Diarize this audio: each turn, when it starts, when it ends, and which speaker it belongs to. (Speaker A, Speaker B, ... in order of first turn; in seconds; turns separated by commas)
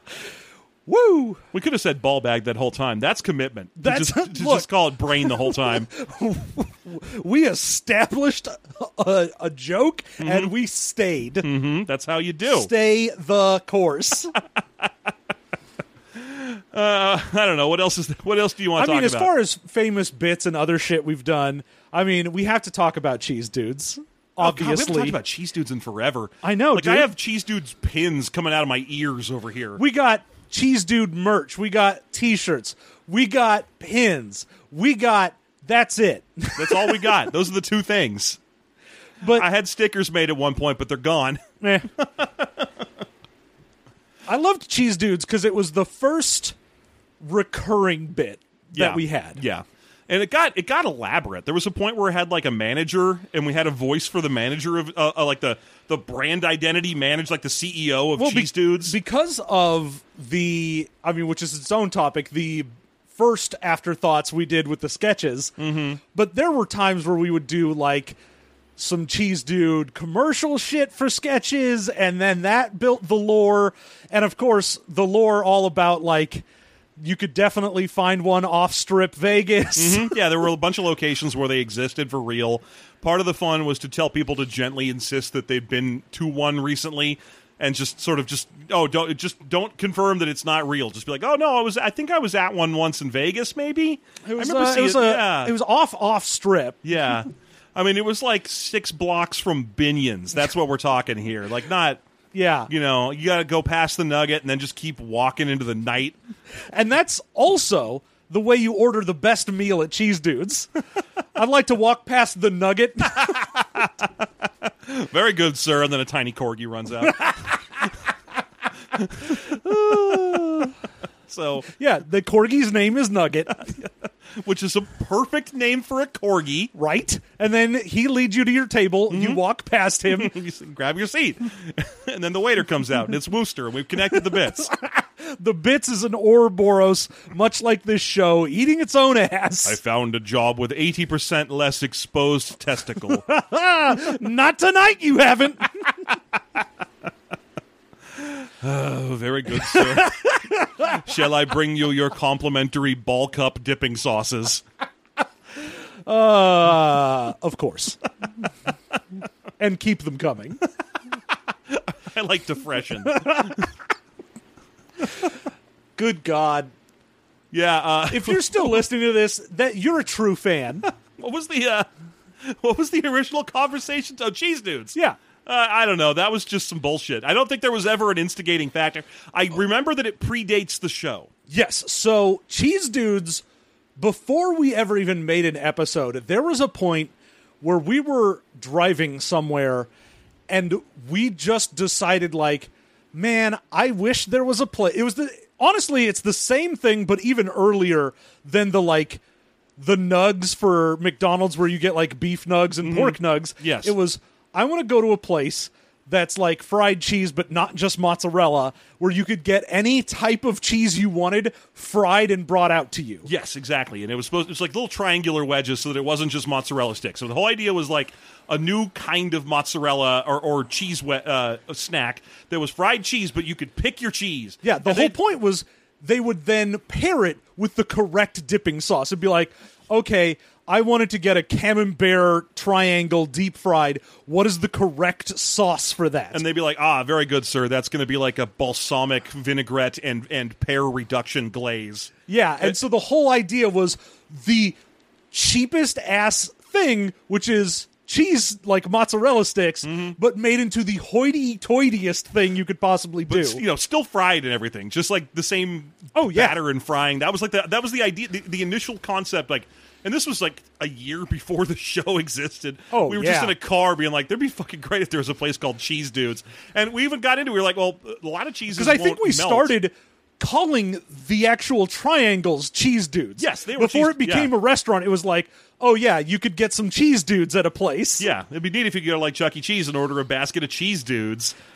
Speaker A: 0.9-1.4, Speaker B: 1.5-5.9, Speaker A: 3.8-11.5, Speaker B: 10.2-10.5, Speaker B: 11.4-12.7, Speaker A: 12.5-14.3, Speaker B: 16.2-19.3, Speaker A: 18.8-25.2, Speaker B: 24.4-29.8, Speaker A: 26.4-27.1, Speaker A: 29.8-37.2, Speaker B: 36.6-38.4, Speaker B: 39.3-42.7, Speaker A: 41.6-41.9, Speaker A: 44.3-46.6, Speaker A: 47.2-49.4, Speaker B: 48.7-59.0, Speaker A: 58.2-65.5, Speaker B: 65.6-66.0, Speaker A: 66.1-68.2, Speaker A: 68.8-76.5, Speaker A: 77.0-80.2, Speaker B: 79.8-95.5, Speaker A: 94.2-96.8, Speaker B: 96.8-102.0, Speaker A: 102.3-102.7, Speaker B: 102.7-106.2, Speaker A: 106.7-110.7, Speaker A: 111.3-113.5, Speaker B: 113.3-113.9, Speaker B: 114.7-117.5, Speaker B: 119.0-119.5, Speaker A: 119.2-120.7, Speaker B: 121.3-121.7, Speaker A: 121.7-123.6, Speaker B: 123.6-126.7, Speaker A: 126.7-130.3, Speaker B: 129.1-129.4, Speaker B: 130.1-134.7, Speaker A: 134.3-139.8, Speaker B: 139.6-143.3, Speaker A: 143.1-145.8, Speaker B: 148.2-154.6, Speaker A: 149.6-151.0, Speaker A: 156.1-158.0, Speaker A: 159.6-160.6, Speaker B: 161.7-163.7, Speaker A: 163.2-163.6, Speaker A: 166.0-166.7, Speaker B: 167.5-168.8, Speaker A: 168.1-170.8, Speaker B: 171.2-171.9, Speaker B: 172.4-181.3, Speaker A: 181.5-183.4, Speaker A: 184.0-189.9, Speaker A: 190.5-199.2, Speaker A: 199.8-213.3, Speaker B: 202.8-203.9, Speaker B: 213.3-225.2, Speaker A: 224.6-236.4, Speaker B: 236.3-242.1, Speaker A: 242.3-244.8, Speaker A: 245.3-253.6, Speaker B: 249.8-250.2, Speaker B: 253.3-269.7, Speaker A: 256.1-256.6, Speaker A: 262.9-263.5, Speaker A: 268.7-278.3, Speaker B: 273.4-274.5, Speaker B: 278.2-281.6